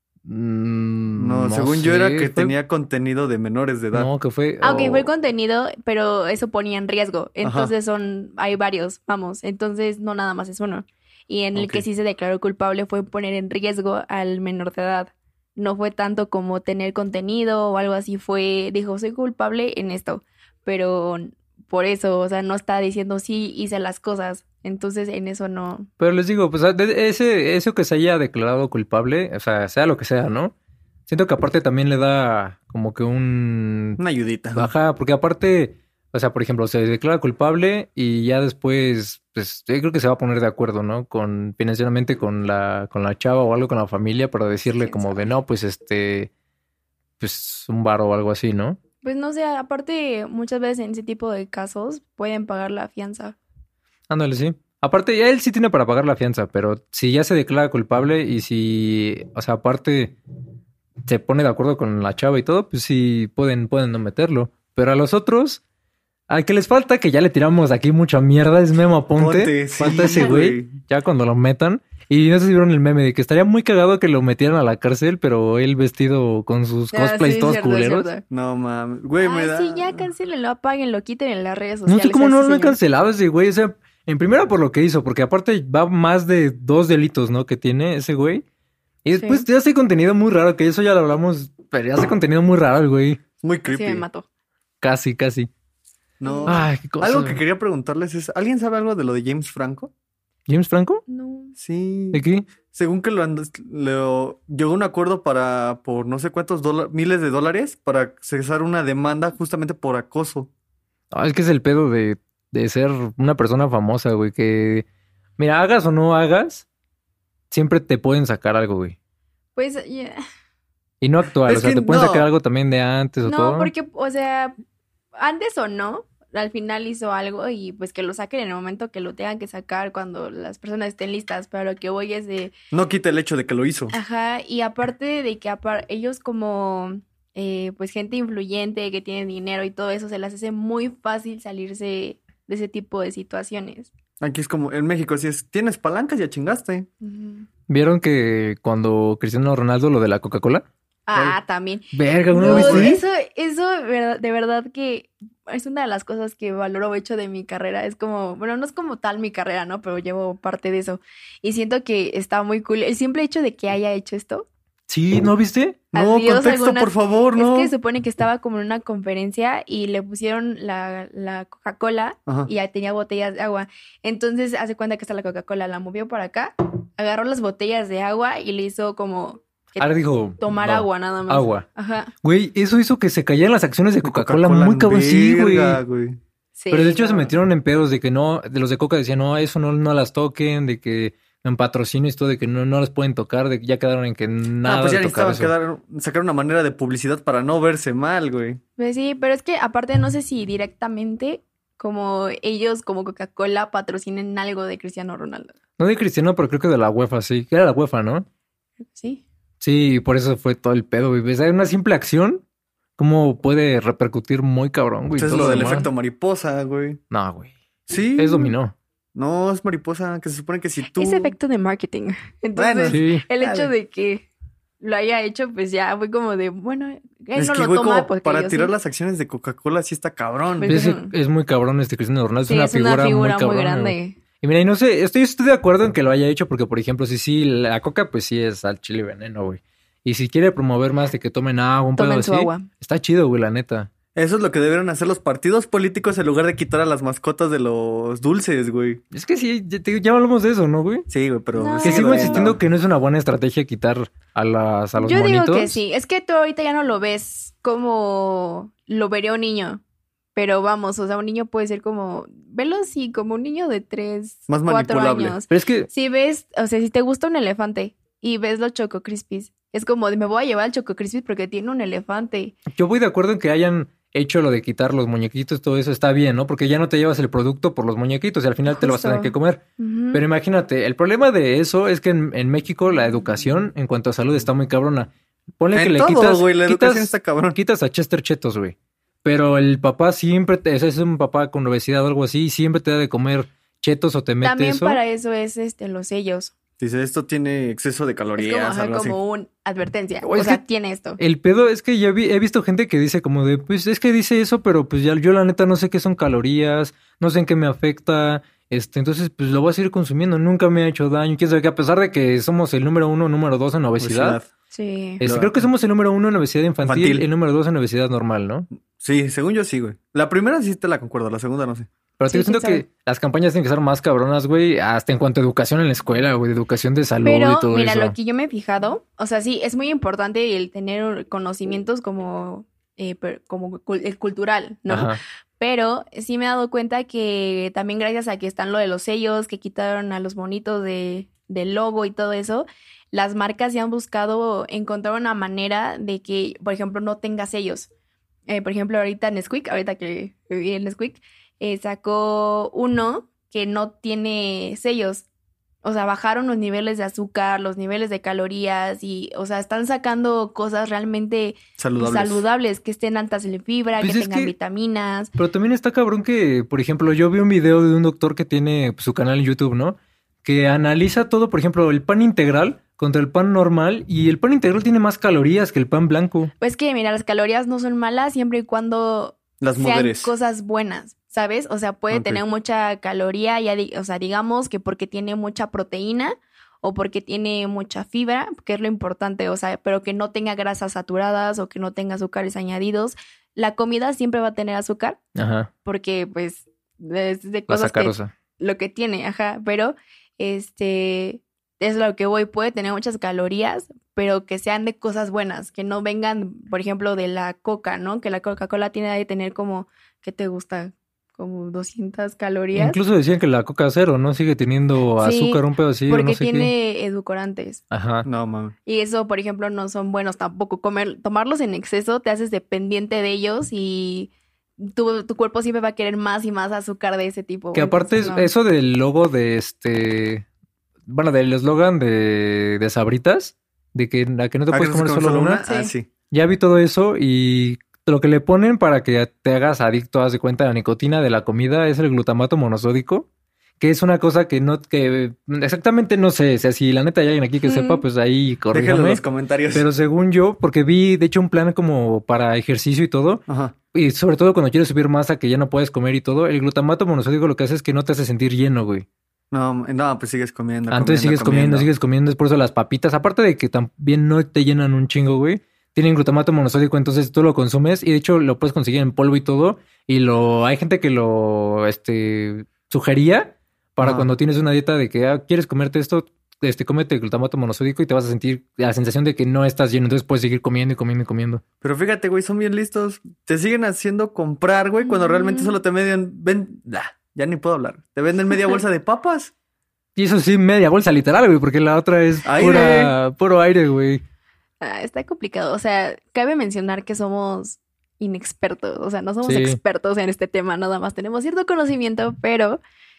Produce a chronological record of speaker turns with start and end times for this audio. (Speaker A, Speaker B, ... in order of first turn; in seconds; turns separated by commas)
Speaker A: 0.2-2.5, Speaker B: 1.2-4.1, Speaker A: 3.9-5.1, Speaker C: 4.6-25.9, Speaker B: 7.4-7.7, Speaker B: 11.5-11.8, Speaker A: 26.0-30.5, Speaker A: 31.1-34.0, Speaker B: 34.0-34.7, Speaker A: 34.5-46.3, Speaker C: 44.7-45.3, Speaker A: 47.2-48.8, Speaker C: 49.0-53.3, Speaker A: 54.1-60.1, Speaker A: 61.0-65.6, Speaker A: 66.3-78.1, Speaker B: 69.2-70.7, Speaker C: 76.9-78.2, Speaker B: 78.3-80.0, Speaker C: 79.2-82.8, Speaker A: 81.9-88.4, Speaker A: 89.0-93.2, Speaker C: 89.2-89.4, Speaker B: 93.4-94.0, Speaker C: 93.7-94.2, Speaker A: 94.8-95.5, Speaker B: 96.2-99.9, Speaker C: 96.2-96.6, Speaker A: 96.5-97.4, Speaker A: 100.5-101.0, Speaker C: 101.1-101.5, Speaker B: 101.6-110.5, Speaker A: 102.1-102.5, Speaker A: 111.1-114.8, Speaker A: 115.4-116.7, Speaker A: 117.5-119.0, Speaker C: 119.5-120.2, Speaker A: 121.0-123.7, Speaker B: 121.4-122.3, Speaker C: 123.2-124.5, Speaker C: 125.2-132.5, Speaker B: 132.7-133.9, Speaker C: 133.9-143.9, Speaker B: 144.2-146.9, Speaker C: 147.0-147.5, Speaker A: 147.7-151.3, Speaker C: 151.1-164.5, Speaker A: 151.9-152.9, Speaker B: 152.4-153.0, Speaker A: 164.9-165.8, Speaker C: 165.9-182.1, Speaker B: 165.9-167.7, Speaker A: 179.8-181.6, Speaker A: 182.2-185.8, Speaker B: 184.0-186.2, Speaker C: 186.6-187.4, Speaker A: 186.7-195.5, Speaker B: 194.6-198.6, Speaker C: 198.8-205.5, Speaker A: 205.8-208.2, Speaker C: 208.9-209.2, Speaker A: 209.6-212.4, Speaker A: 213.0-215.9, Speaker B: 215.1-217.0, Speaker A: 217.1-217.5, Speaker B: 217.9-218.5, Speaker A: 218.2-218.7, Speaker B: 219.1-221.3, Speaker C: 220.8-224.2, Speaker B: 222.6-223.7, Speaker A: 222.9-223.2, Speaker C: 224.8-228.7, Speaker B: 227.3-230.8, Speaker C: 230.6-231.1, Speaker A: 230.7-243.9, Speaker C: 232.5-234.2, Speaker C: 242.0-242.7, Speaker B: 244.2-249.0, Speaker A: 249.1-251.1, Speaker B: 251.1-252.6, Speaker C: 251.6-252.4, Speaker A: 251.8-255.8, Speaker C: 254.9-259.8, Speaker C: 260.3-272.6, Speaker B: 264.5-265.4, Speaker A: 265.5-265.9, Speaker A: 272.7-279.6, Speaker C: 278.7-280.2, Speaker A: 280.1-295.0, Speaker B: 285.7-287.6, Speaker C: 294.4-296.5, Speaker B: 296.8-299.2, Speaker C: 298.4-301.2, Speaker A: 300.2-300.6, Speaker A: 301.2-314.4, Speaker B: 314.0-314.5, Speaker C: 314.7-315.2, Speaker B: 315.2-315.6, Speaker A: 315.2-318.7, Speaker B: 316.8-317.2, Speaker B: 319.0-321.9, Speaker A: 322.2-328.1, Speaker C: 322.3-322.8, Speaker C: 327.2-347.9, Speaker A: 334.9-335.2, Speaker C: 348.5-355.2, Speaker C: 355.8-365.3, Speaker B: 361.8-362.4, Speaker A: 364.0-364.5, Speaker A: 365.4-376.5, Speaker C: 376.6-395.2, Speaker B: 379.6-380.3, Speaker B: 382.1-382.4, Speaker A: 395.4-395.7, Speaker C: 395.8-413.0, Speaker A: 397.7-398.3, Speaker A: 412.7-416.7, Speaker C: 415.2-417.8, Speaker A: 417.9-418.2, Speaker B: 418.2-418.7, Speaker C: 418.9-428.5, Speaker A: 427.7-430.4, Speaker A: 431.1-435.6, Speaker B: 434.7-436.1, Speaker A: 436.3-443.3, Speaker A: 443.8-449.2, Speaker C: 447.6-448.0, Speaker B: 448.7-449.8, Speaker A: 449.7-453.4, Speaker B: 453.5-453.8, Speaker A: 453.9-459.1, Speaker B: 459.5-461.9, Speaker A: 460.9-481.6, Speaker B: 474.0-474.3, Speaker B: 481.8-489.5, Speaker C: 485.0-485.8, Speaker A: 490.1-494.2, Speaker B: 492.4-493.1, Speaker C: 494.8-502.8, Speaker A: 499.4-499.8